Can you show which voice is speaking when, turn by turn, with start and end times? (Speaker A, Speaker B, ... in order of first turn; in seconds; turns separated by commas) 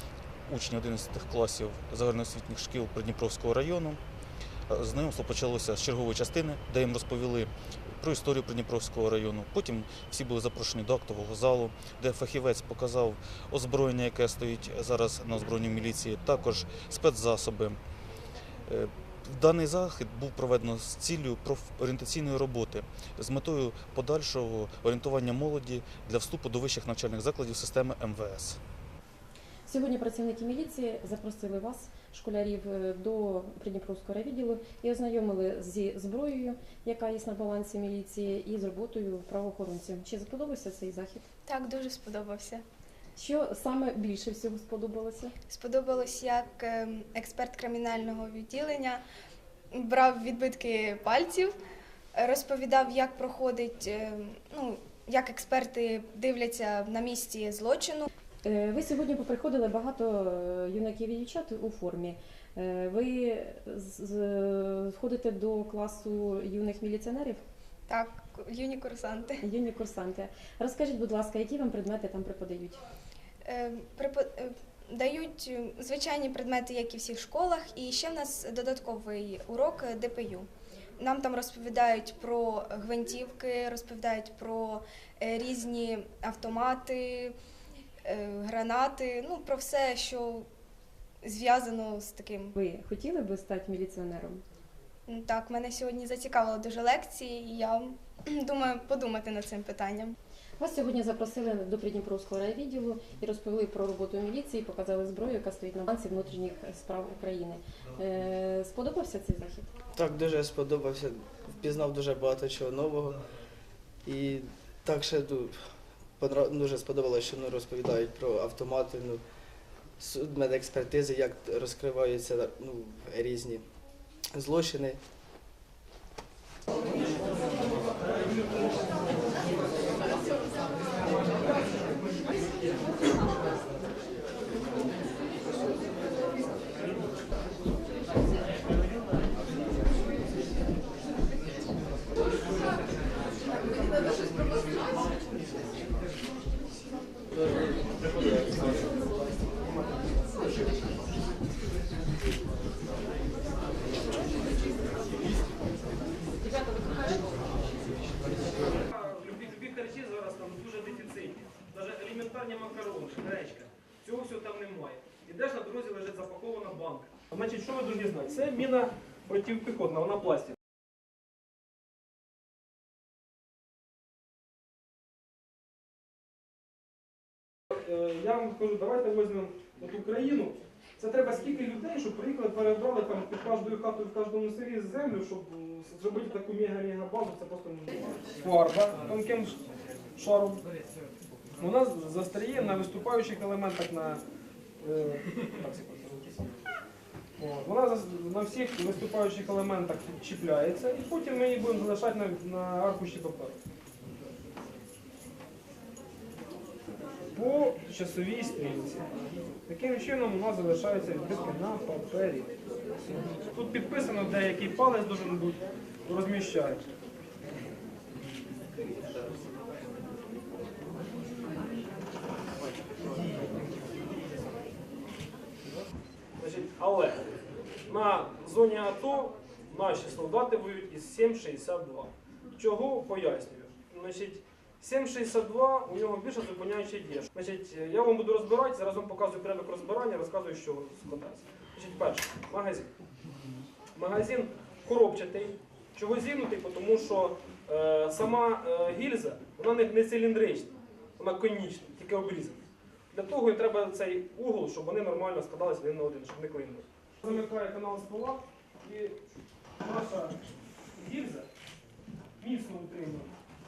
Speaker A: 0.5-4.0, Speaker A: 4.7-17.8, Speaker A: 18.7-28.6, Speaker B: 29.7-41.3, Speaker C: 41.5-42.6, Speaker B: 43.2-45.3, Speaker C: 45.5-49.0, Speaker C: 49.7-51.5, Speaker C: 52.1-58.1, Speaker B: 58.5-67.4, Speaker C: 67.9-69.4, Speaker B: 69.4-72.8, Speaker C: 73.4-80.5, Speaker C: 81.0-87.3, Speaker C: 88.0-90.5, Speaker C: 91.2-92.5, Speaker B: 92.5-94.4, Speaker C: 95.1-100.2, Speaker B: 100.6-109.7, Speaker D: 109.9-113.2, Speaker D: 114.0-115.6, Speaker D: 116.2-119.2, Speaker D: 120.0-123.6, Speaker D: 124.3-125.0, Speaker E: 158.6-170.6, Speaker E: 177.7-189.6, Speaker E: 190.2-190.7, Speaker E: 191.6-194.2, Speaker E: 194.8-196.6, Speaker E: 197.4-203.6, Speaker E: 207.3-209.1, Speaker E: 209.7-212.5, Speaker E: 213.5-216.8, Speaker E: 226.4-227.2, Speaker E: 227.9-242.9, Speaker E: 243.9-252.6, Speaker E: 253.1-259.2, Speaker E: 259.8-260.4, Speaker E: 260.9-261.5, Speaker E: 262.4-263.3